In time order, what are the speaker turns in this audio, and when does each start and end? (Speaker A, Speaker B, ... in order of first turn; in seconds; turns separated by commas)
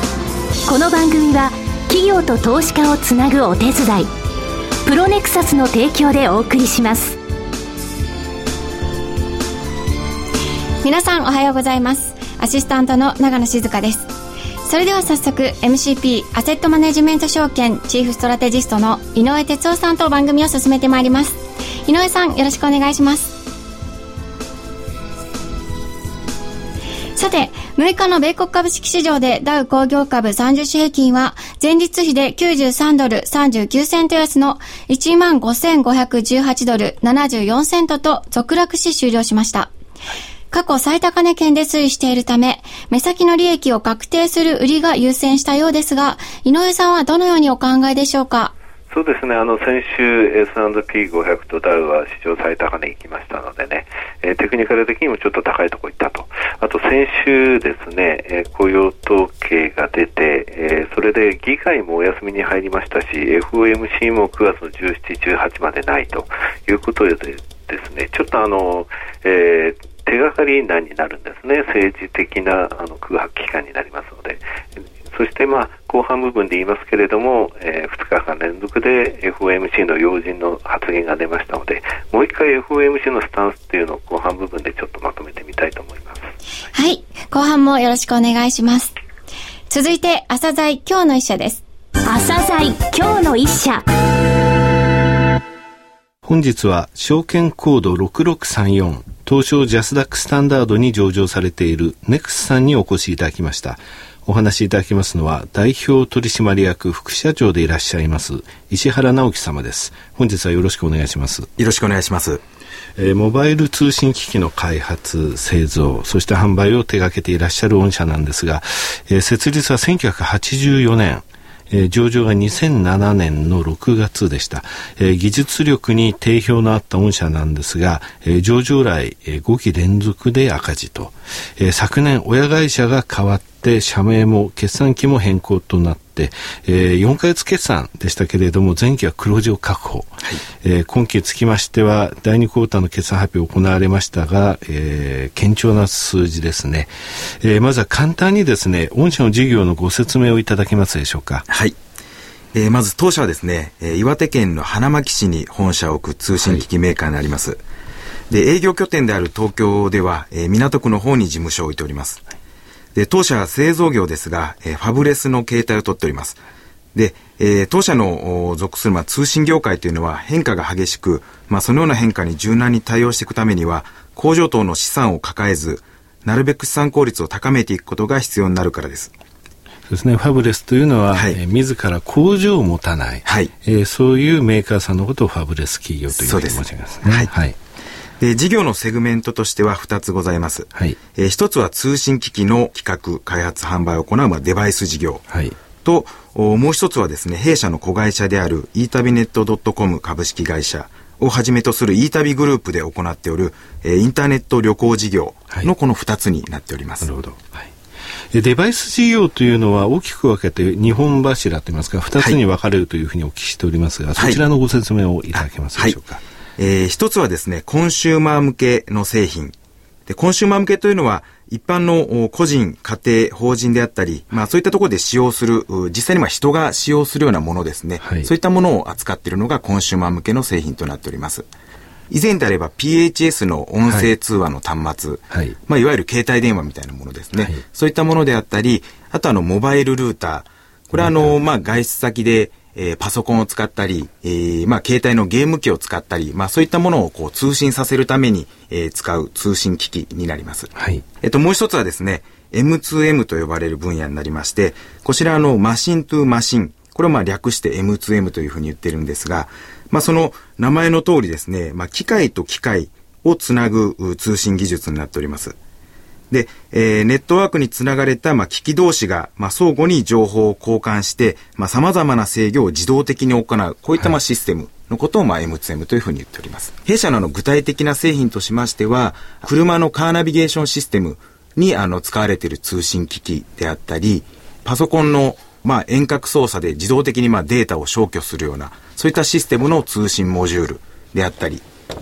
Speaker A: 0.7-4.1, Speaker A: 4.8-7.2, Speaker B: 10.8-14.1, Speaker B: 14.7-23.3, Speaker B: 27.1-39.7, Speaker B: 40.5-48.5, Speaker C: 48.9-74.4, Speaker C: 75.1-86.3, Speaker B: 86.7-88.9, Speaker B: 89.7-91.6, Speaker A: 92.0-93.8, Speaker D: 96.2-111.5, Speaker E: 111.6-112.4, Speaker D: 113.0-151.4, Speaker E: 151.5-151.7, Speaker E: 152.5-157.6, Speaker E: 158.3-162.2, Speaker E: 162.9-166.4, Speaker E: 166.9-179.1, Speaker D: 179.9-187.6, Speaker E: 181.1-181.4, Speaker E: 183.2-183.5, Speaker E: 186.1-187.3, Speaker E: 188.2-195.2, Speaker D: 195.3-195.6, Speaker E: 195.8-207.1, Speaker D: 207.0-207.7, Speaker D: 208.3-216.2, Speaker E: 214.2-214.4, Speaker E: 216.6-219.5, Speaker E: 220.1-231.5, Speaker D: 228.0-228.3, Speaker E: 232.1-265.6, Speaker D: 235.3-235.6, Speaker D: 241.0-241.3, Speaker D: 250.8-251.0, Speaker E: 266.3-291.6